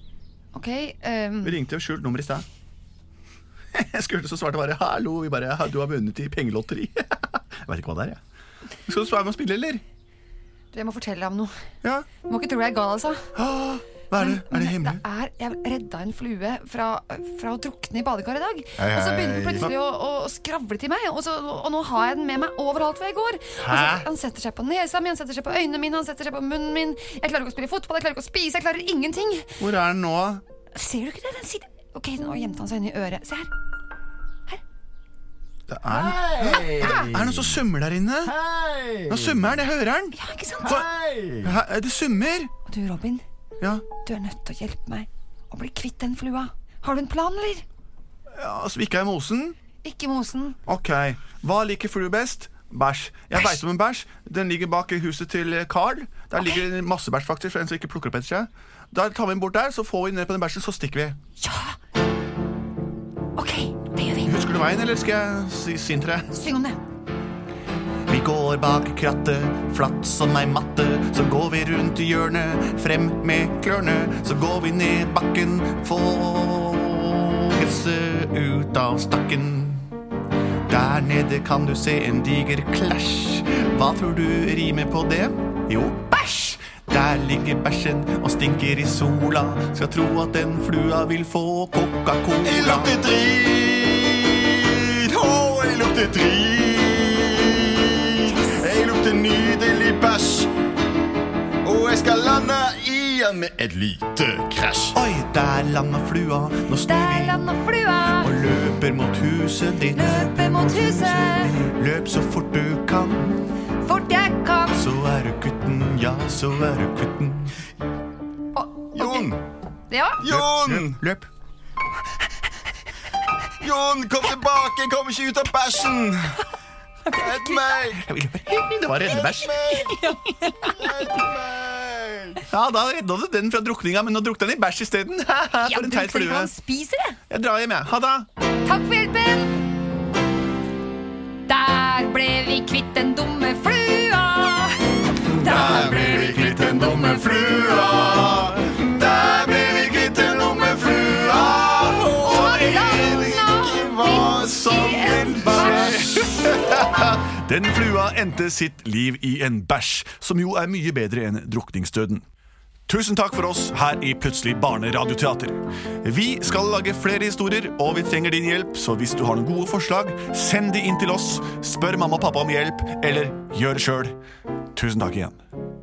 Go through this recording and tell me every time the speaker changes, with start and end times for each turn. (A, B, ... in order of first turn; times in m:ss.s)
0:00.5-0:01.6 A
0:01.4-0:02.4 B
0:03.7-0:08.2 B
0:08.8-0:09.8 B
0:10.7-0:11.5 A
0:12.2-0:13.2 A
0:13.4-0:15.0 B
0:14.2-0:29.5 A
0:18.8-0:19.7 C
0:23.6-0:24.1 B
0:29.6-0:30.4 B
0:30.7-0:33.5 A
0:35.7-0:38.3 B
0:35.9-0:37.6 C
0:36.8-0:37.1 A
0:38.2-0:39.6 C
0:39.1-0:40.9 B
0:40.1-0:40.8 A
0:40.6-0:41.6 C
0:41.4-0:42.5 B
0:42.7-0:43.2 A
0:43.6-0:43.8 B
0:44.0-0:47.6 A
0:48.3-0:49.6 B
0:49.8-0:50.6 A
0:50.6-1:01.2 B
0:56.4-0:56.6 A
1:01.4-1:01.8 A
1:03.4-1:04.4 A
1:04.2-1:06.3 B
1:06.3-1:06.8 A
1:08.1-1:19.9 B
1:20.7-1:32.9 B
1:32.4-1:40.5 C
1:38.3-1:38.7 A
1:41.6-1:45.0 C
1:44.9-1:47.4 B
1:46.8-1:48.3 A
1:48.2-1:53.4 B
1:49.9-1:51.6 A
1:53.8-1:54.9 A
1:54.7-1:57.6 B
1:58.5-1:59.3 A
1:58.9-1:59.4 C
1:59.9-2:00.2 A
2:00.2-2:01.0 C
2:00.2-2:01.3 B
2:03.6-2:06.4 C
2:07.1-2:08.1 C
2:07.1-2:07.8 A
2:07.9-2:09.8 B
2:08.9-2:10.1 C
2:09.7-2:11.1 A
2:10.6-2:12.4 C
2:12.5-2:16.5 B
2:15.6-2:17.2 A
2:17.3-2:18.2 B
2:18.6-2:19.7 A
2:21.5-2:28.2 A
2:25.3-2:36.8 C
2:32.2-2:36.3 A
2:34.6-2:42.2 B
2:42.9-2:54.2 B
2:54.7-2:55.4 B